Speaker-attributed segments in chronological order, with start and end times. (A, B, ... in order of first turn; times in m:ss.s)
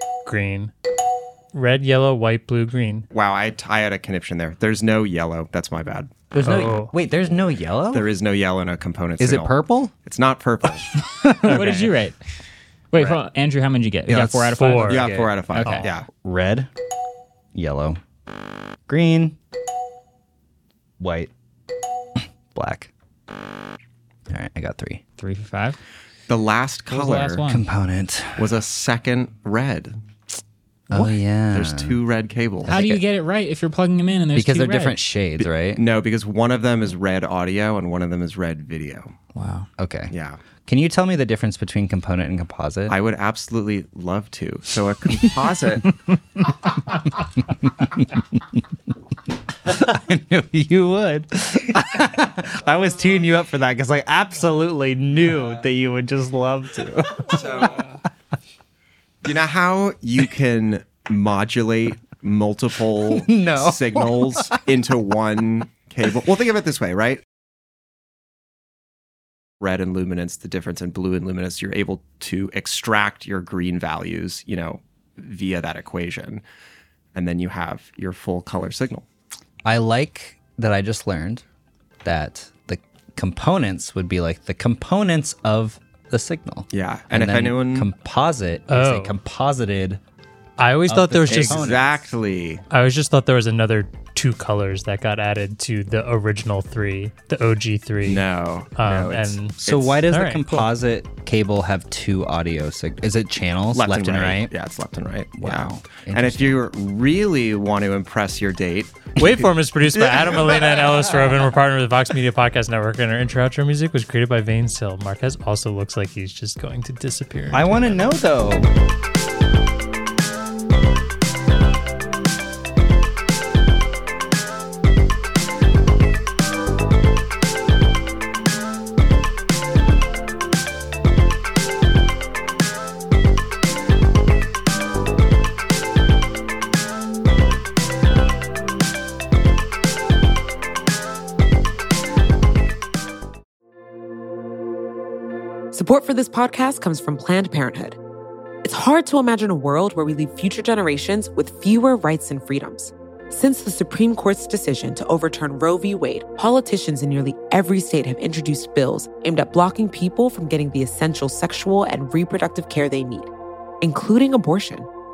0:00.2-0:00.7 A
0:01.5-0:03.1 A
0:03.1-0:06.7 B
0:06.3-0:08.1 C
0:06.4-0:06.9 A
0:07.9-0:10.9 B
0:09.2-0:09.9 C
0:11.1-0:11.8 C
0:11.4-0:12.2 D
0:11.4-0:11.9 A
0:12.9-0:15.9 D
0:14.1-0:16.7 C
0:14.6-0:15.1 A
0:14.9-0:16.0 B
0:17.5-0:18.0 C
0:18.9-0:19.4 C
0:21.0-0:21.3 C
0:22.2-0:22.9 C
0:24.3-0:25.0 C
0:25.2-0:25.8 D
0:26.3-0:27.4 B
0:26.9-0:27.6 D
0:27.4-0:28.6 C
0:28.4-0:30.0 B
0:30.9-0:32.0 C
0:30.9-0:32.8 B
0:32.6-0:33.0 C
0:32.7-0:35.0 D
0:34.3-0:35.8 C
0:35.4-0:39.1 B
0:39.3-0:39.7 D
0:39.8-0:40.1 C
0:40.1-0:40.4 B
0:40.6-0:43.0 C
0:42.9-0:46.0 B
0:47.2-0:48.6 C
0:49.6-0:57.9 C
0:57.3-0:57.8 B
0:59.2-1:07.2 B
1:03.0-1:04.6 C
1:09.6-1:16.4 B
1:17.1-1:19.0 B
1:19.6-1:21.4 C
1:22.0-1:30.0 C
1:26.7-1:27.9 B
1:28.7-1:29.2 A
1:30.6-1:31.7 A
1:30.8-1:31.9 C
1:31.3-1:32.6 B
1:32.7-1:40.7 A
1:38.0-1:40.0 B
1:39.6-1:44.5 C
1:43.7-1:51.3 B
1:45.4-1:46.6 C
1:49.2-1:58.0 A
1:57.5-1:58.7 C
2:25.7-2:28.0 E
2:28.6-2:44.9 E